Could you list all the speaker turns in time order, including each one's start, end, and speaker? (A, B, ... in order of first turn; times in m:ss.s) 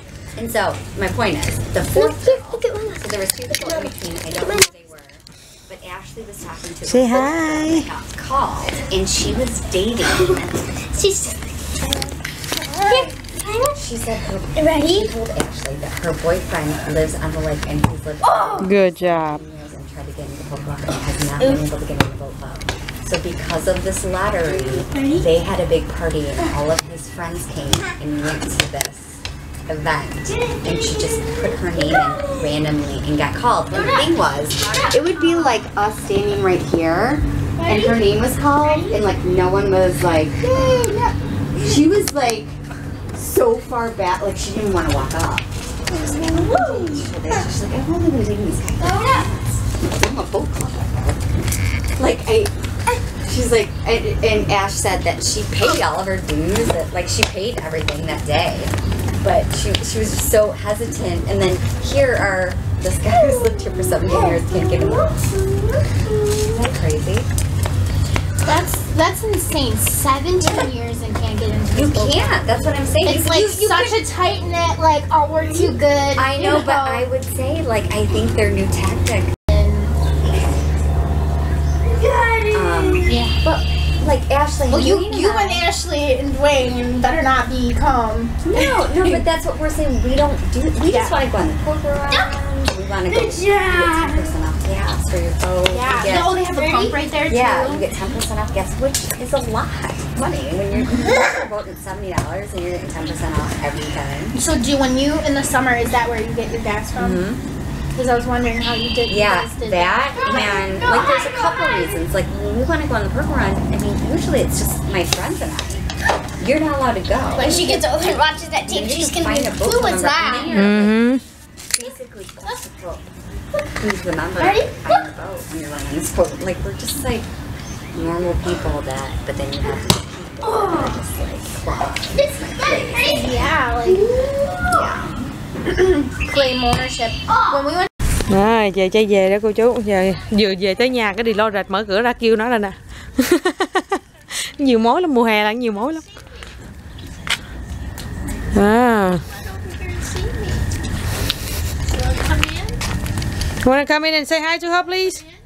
0:00.4-0:10.8 A
0:02.0-0:03.1 B
0:03.6-0:03.9 B
0:06.9-0:07.9 C
0:11.0-0:11.4 B
0:12.7-0:13.7 B
0:13.6-0:40.4 A
0:14.6-0:15.1 B
0:18.6-0:19.4 C
0:34.7-0:35.0 B
0:37.6-0:39.1 B
0:40.4-0:41.2 B
0:41.6-0:42.6 A
0:43.1-0:51.2 A
0:45.9-0:47.1 B
0:48.8-0:49.2 B
0:52.0-1:05.1 A
1:03.2-1:03.5 B
1:04.0-1:06.6 B
1:06.5-1:07.3 A
1:08.4-1:12.5 B
1:11.7-1:14.0 A
1:13.0-1:17.1 B
1:16.2-1:19.3 A
1:19.5-1:20.0 B
1:20.2-1:20.7 A
1:22.0-1:23.4 B
1:22.5-1:25.7 A
1:24.7-1:29.2 B
1:28.4-1:44.4 A
1:30.8-1:31.2 B
1:32.1-1:32.4 B
1:33.1-1:34.4 B
1:35.7-1:37.9 B
1:44.4-1:47.2 B
1:47.0-1:47.4 A
1:48.0-1:51.3 B
1:49.1-1:55.9 A
1:56.4-1:57.9 A
1:57.3-2:00.7 B
1:58.6-2:01.0 A
2:00.5-2:01.2 C
2:01.7-2:03.1 A
2:03.8-2:07.3 A
2:04.4-2:05.0 B
2:07.9-2:15.0 A
2:10.5-2:10.9 B
2:12.1-2:14.8 B
2:15.7-2:17.9 B
2:18.3-2:26.0 C
2:28.5-2:29.2 C
2:29.5-2:30.6 B
2:31.9-2:32.8 B
2:33.6-2:35.2 C